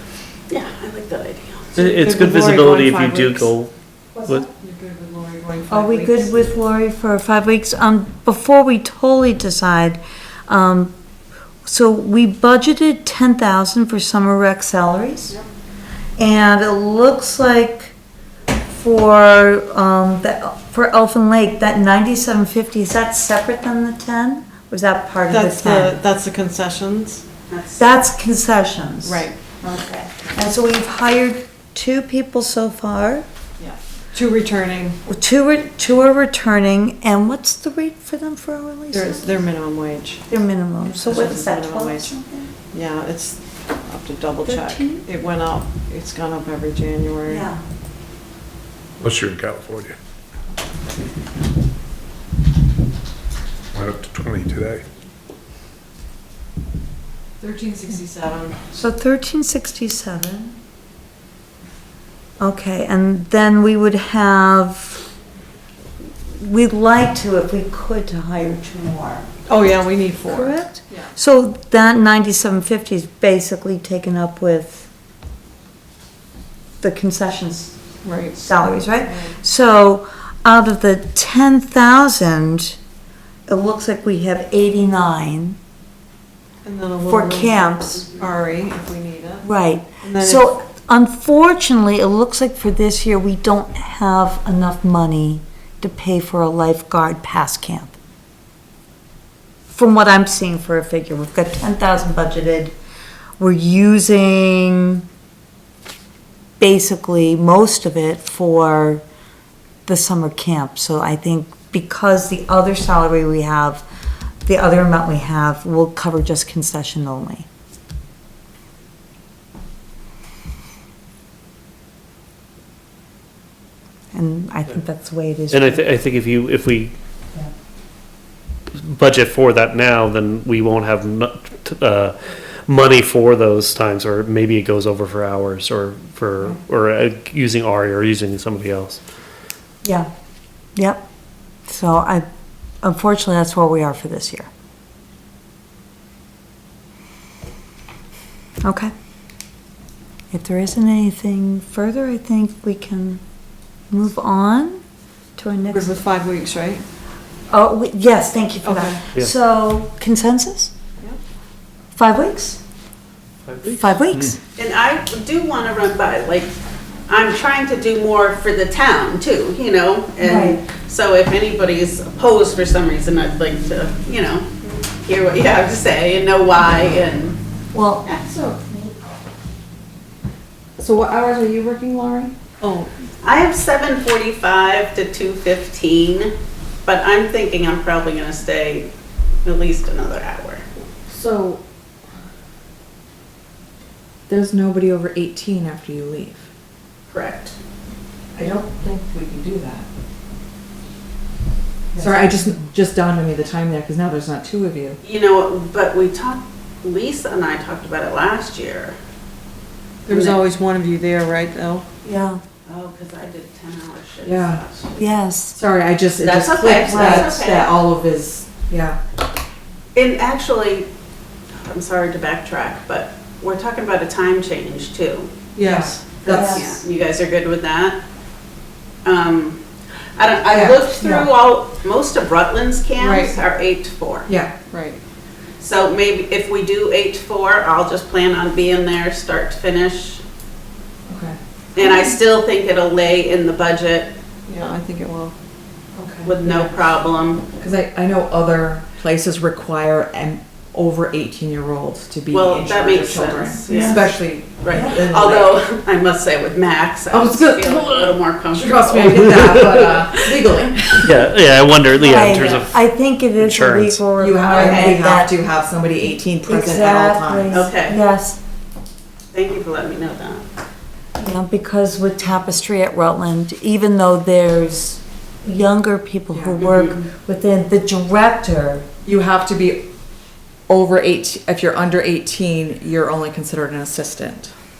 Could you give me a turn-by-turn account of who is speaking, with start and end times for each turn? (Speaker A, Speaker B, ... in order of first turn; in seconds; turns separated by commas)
Speaker A: 0.5-1.7, Speaker B: 1.7-3.5, Speaker C: 1.7-3.7, Speaker B: 4.6-6.4, Speaker D: 5.7-10.9, Speaker D: 11.6-15.3, Speaker D: 16.2-17.9, Speaker D: 18.7-26.0, Speaker B: 25.3-27.2, Speaker A: 27.5-27.9, Speaker D: 27.8-33.2, Speaker B: 29.0-29.4, Speaker B: 33.6-35.0, Speaker D: 35.0-39.3, Speaker B: 38.9-40.3, Speaker D: 40.3-42.5, Speaker B: 40.8-42.1, Speaker B: 42.7-47.5, Speaker D: 44.4-45.0, Speaker D: 47.3-47.6, Speaker E: 49.0-49.9, Speaker E: 53.7-54.8, Speaker B: 57.5-58.5, Speaker D: 58.7-60.5, Speaker D: 62.4-65.0, Speaker D: 66.3-69.3, Speaker B: 69.5-71.1, Speaker D: 70.2-74.9, Speaker D: 76.8-77.7, Speaker B: 78.0-79.3, Speaker D: 78.4-82.8, Speaker D: 83.5-85.6, Speaker B: 86.6-90.5, Speaker D: 87.1-88.1, Speaker D: 89.4-97.9, Speaker D: 99.7-102.7, Speaker D: 103.4-105.0, Speaker D: 106.6-109.0, Speaker D: 109.8-113.8, Speaker D: 114.4-117.5, Speaker D: 124.1-125.8, Speaker C: 125.5-126.9, Speaker C: 128.7-132.1, Speaker C: 132.7-139.0, Speaker D: 140.8-141.0, Speaker D: 141.7-142.2, Speaker D: 142.8-144.5, Speaker D: 148.6-148.9, Speaker D: 150.3-153.2, Speaker D: 153.9-154.8, Speaker D: 155.4-155.9, Speaker B: 155.7-156.8, Speaker D: 157.5-160.7, Speaker B: 158.6-159.0, Speaker D: 161.9-162.6, Speaker C: 163.5-164.0, Speaker D: 163.6-164.3, Speaker A: 164.6-166.5, Speaker A: 167.1-177.4, Speaker D: 170.2-170.6, Speaker D: 177.7-178.0, Speaker F: 178.2-178.8, Speaker F: 180.8-182.3, Speaker B: 182.6-182.9, Speaker A: 183.2-186.3, Speaker A: 186.8-188.9, Speaker A: 189.4-190.6, Speaker F: 191.1-191.6, Speaker F: 194.3-196.5, Speaker A: 197.1-197.6, Speaker F: 198.3-199.9, Speaker D: 201.9-202.4, Speaker F: 202.0-205.0, Speaker A: 205.0-208.9, Speaker B: 210.1-211.8, Speaker A: 210.1-210.4, Speaker D: 212.0-212.4, Speaker A: 212.7-215.0, Speaker F: 214.2-214.6, Speaker D: 215.0-215.6, Speaker F: 215.5-219.0, Speaker A: 216.2-217.7, Speaker D: 216.8-217.3, Speaker A: 219.9-220.9, Speaker A: 221.6-225.3, Speaker B: 225.5-226.7, Speaker F: 225.6-225.9, Speaker A: 226.2-228.0, Speaker D: 226.3-226.7, Speaker A: 229.0-229.6, Speaker A: 230.2-234.3, Speaker F: 230.5-231.2, Speaker B: 233.0-233.3, Speaker F: 234.2-234.6, Speaker B: 234.6-235.0, Speaker A: 235.6-240.2, Speaker F: 241.1-242.1, Speaker A: 241.7-244.1, Speaker B: 244.4-245.3, Speaker D: 246.0-246.3, Speaker A: 246.2-247.4, Speaker B: 246.4-246.7, Speaker F: 247.6-255.6, Speaker A: 252.3-261.0, Speaker D: 253.7-254.0, Speaker D: 254.7-255.0, Speaker F: 257.1-261.2, Speaker C: 259.3-259.8, Speaker C: 261.0-262.8, Speaker D: 262.0-265.3, Speaker C: 263.4-264.0, Speaker F: 264.2-267.6, Speaker A: 264.5-265.0, Speaker D: 266.5-268.4, Speaker A: 267.5-268.0, Speaker A: 269.3-270.4, Speaker D: 271.2-278.9, Speaker A: 276.6-277.0, Speaker F: 279.0-279.8, Speaker F: 280.7-284.5